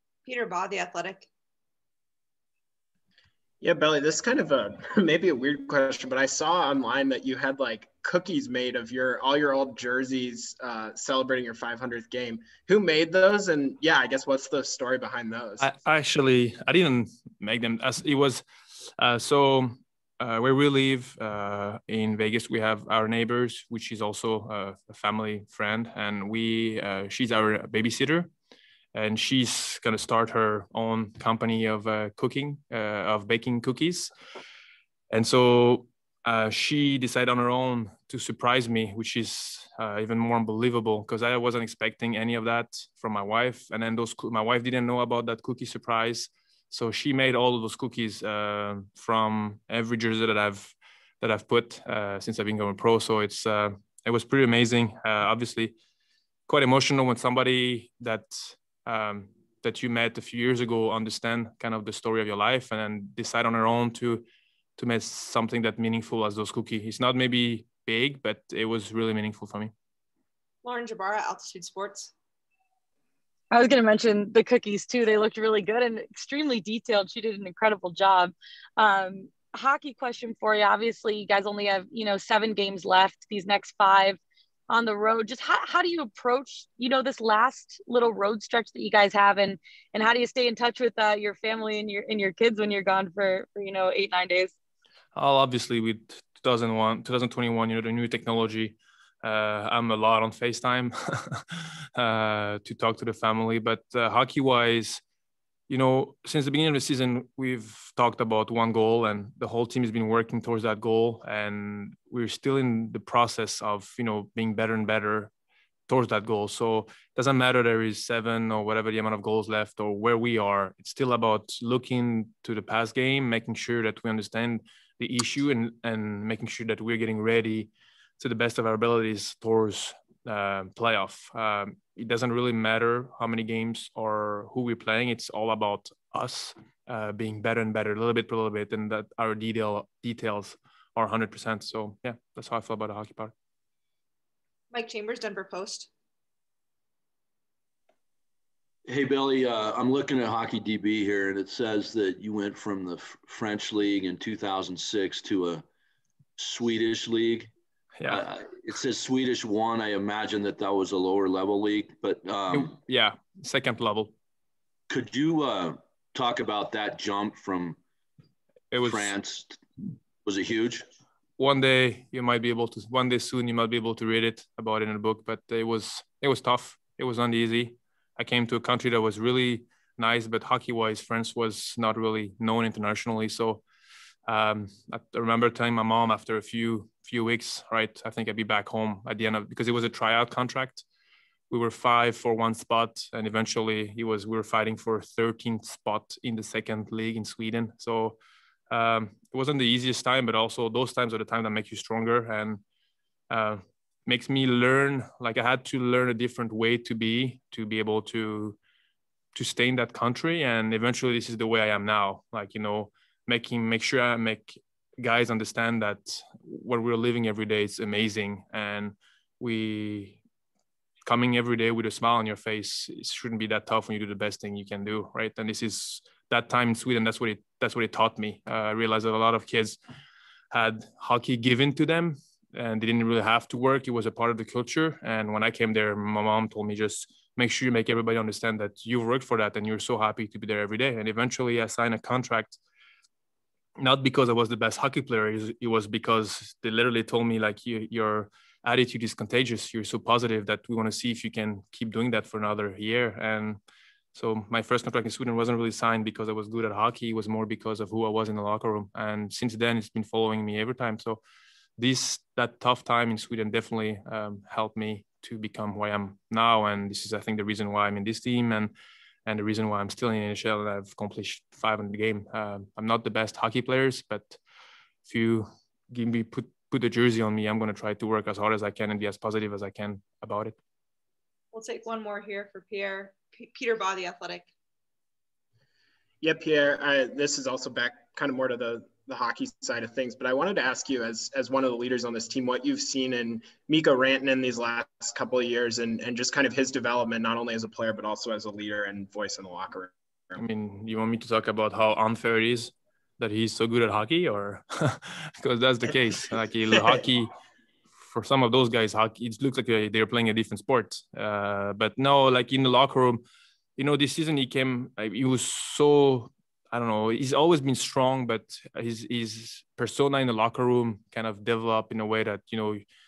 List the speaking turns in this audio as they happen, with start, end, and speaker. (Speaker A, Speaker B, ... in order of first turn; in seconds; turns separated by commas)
Speaker A: 0.3-1.3, Speaker B: 3.6-15.6, Speaker C: 15.6-28.3, Speaker C: 28.9-34.1, Speaker C: 35.1-55.8, Speaker C: 56.5-64.2, Speaker C: 64.8-69.7, Speaker A: 70.6-72.1, Speaker D: 73.5-84.2, Speaker D: 84.7-94.5, Speaker C: 95.2-105.0, Speaker C: 105.7-115.3, Speaker C: 115.9-143.3, Speaker A: 144.7-145.9, Speaker E: 148.9-155.7, Speaker E: 156.4-157.5, Speaker C: 158.0-158.2, Speaker E: 158.1-162.8, Speaker C: 162.5-164.1, Speaker E: 164.9-167.8, Speaker C: 168.7-169.2, Speaker E: 168.8-169.6, Speaker E: 170.2-170.9, Speaker C: 171.4-183.6, Speaker C: 184.3-190.8, Speaker C: 191.5-198.2, Speaker C: 198.7-202.6, Speaker C: 203.3-208.6, Speaker C: 209.3-220.2, Speaker C: 221.1-229.8, Speaker C: 230.5-242.6, Speaker C: 243.8-253.6, Speaker C: 254.1-261.2, Speaker C: 261.8-268.7, Speaker C: 269.3-274.4, Speaker C: 275.1-280.6, Speaker A: 281.5-284.5, Speaker B: 286.2-299.9, Speaker C: 300.4-307.3, Speaker C: 308.1-313.2, Speaker C: 313.8-322.9